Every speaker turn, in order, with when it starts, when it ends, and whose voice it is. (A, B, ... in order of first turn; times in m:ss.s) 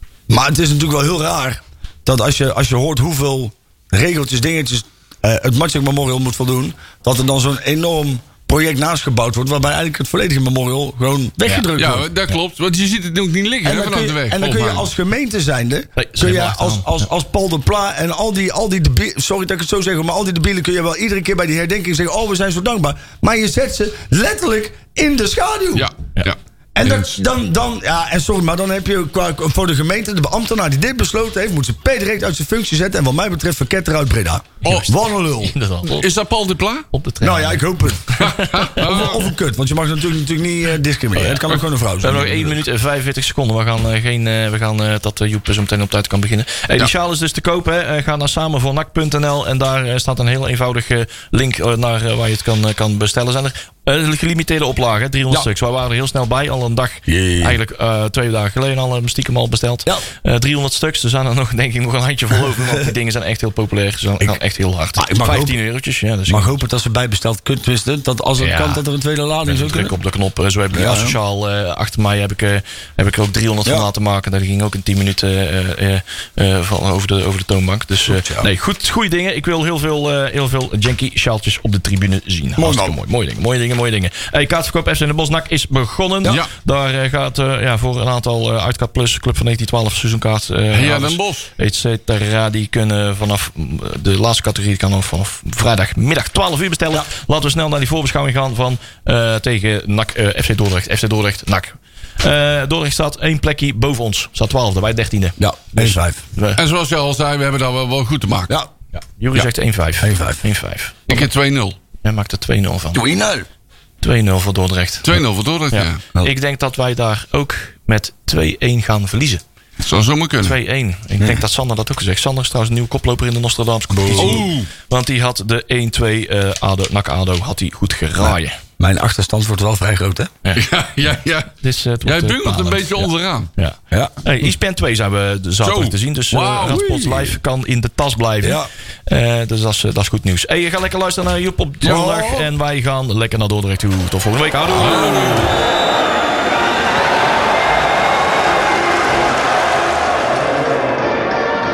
0:00.3-0:12.1 A
0:11.7-0:14.9 B
0:13.6-0:25.9 A
0:16.0-0:17.0 C
0:25.7-0:27.2 B
0:26.7-0:35.5 A
0:34.6-0:36.1 C
0:34.6-0:34.9 B
0:35.8-0:36.9 B
0:36.9-0:38.8 C
0:37.2-0:38.2 A
0:38.2-0:39.3 B
0:38.8-0:42.6 A
0:41.2-1:06.6 C
0:57.1-0:57.6 A
1:05.0-1:05.6 A
1:06.3-1:09.9 A
1:08.4-1:08.8 C
1:09.4-1:46.6 C
1:10.7-1:11.2 A
1:18.1-1:18.5 A
1:22.6-1:23.0 A
1:30.7-1:31.5 B
1:45.4-1:46.2 A
1:46.6-1:48.5 B
1:48.9-1:51.3 C
1:50.0-1:50.4 A
1:51.1-1:51.8 B
1:52.0-1:53.0 C
1:52.9-1:53.4 A
1:54.0-1:59.4 C
1:55.0-1:56.0 B
1:59.8-2:00.5 B
2:00.4-2:08.6 C
2:03.9-2:04.5 A
2:04.1-2:04.7 B
2:08.2-2:10.3 A
2:10.5-2:11.5 B
2:11.6-2:25.5 C
2:12.0-2:13.5 B
2:13.9-2:14.2 A
2:15.6-2:17.3 B
2:16.7-2:17.1 A
2:18.4-2:18.7 A
2:21.8-2:22.4 B
2:24.7-2:25.6 B